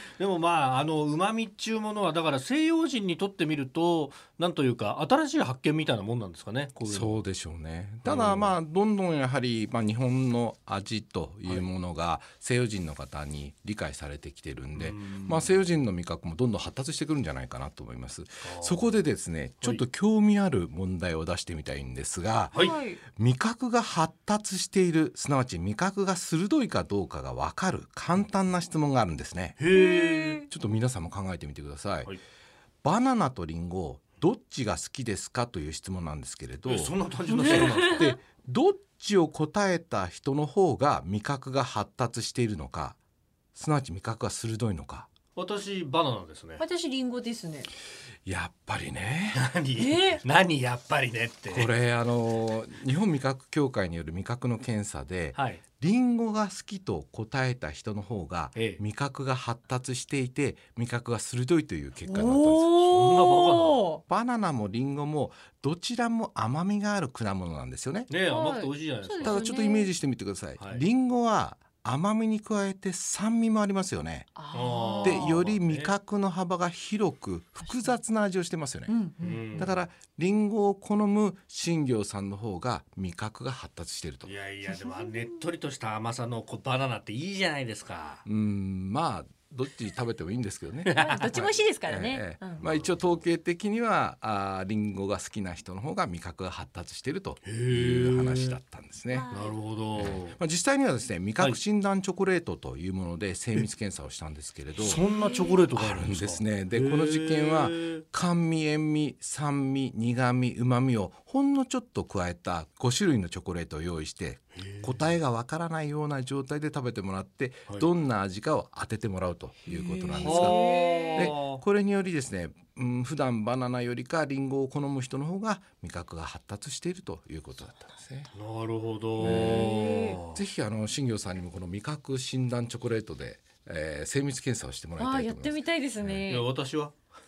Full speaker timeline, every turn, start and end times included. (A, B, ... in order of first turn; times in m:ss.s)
0:00.2-0:07.2 A
0:06.8-0:29.6 B
0:08.0-0:08.6 A
0:14.7-0:15.5 A
0:18.4-0:19.0 A
0:22.5-0:23.0 C
0:29.6-0:30.4 A
0:29.7-0:30.5 C
0:30.5-0:32.1 B
0:32.8-0:43.0 B
0:36.6-0:38.1 A
0:37.4-0:38.1 C
0:43.5-0:45.1 B
0:45.3-0:46.6 A
0:46.6-0:47.7 C
0:48.2-0:49.4 B
0:49.3-0:51.7 A
0:49.8-0:50.2 C
0:51.5-1:02.7 B
0:55.3-0:55.6 A
0:58.5-0:58.8 A
1:02.0-1:04.0 C
1:02.7-1:03.8 A
1:04.1-1:08.1 B
1:08.1-1:09.4 A
1:08.3-1:09.9 C
1:09.2-1:14.3 B
1:10.6-1:10.8 A
1:14.4-1:15.4 C
1:14.5-1:15.9 A
1:15.0-1:18.9 B
1:17.6-1:18.0 C
1:18.9-1:19.5 C
1:19.2-1:19.8 A
1:19.6-1:24.3 B
1:24.2-1:28.2 A
1:24.7-1:25.4 C
1:28.2-1:39.3 B
1:30.8-1:31.2 A
1:31.0-1:32.6 C
1:32.5-1:33.2 A
1:37.4-1:38.6 A
1:39.1-1:39.6 C
1:39.3-1:40.4 A
1:39.9-1:45.0 B
1:44.8-1:48.0 A
1:45.0-1:45.6 C
1:45.7-2:08.3 B
1:54.6-1:55.1 A
1:59.7-2:01.3 C
2:00.2-2:01.6 A
2:08.3-2:10.4 A
2:09.2-2:16.2 B
2:09.2-2:10.2 C
2:15.0-2:16.5 C
2:16.3-2:16.9 A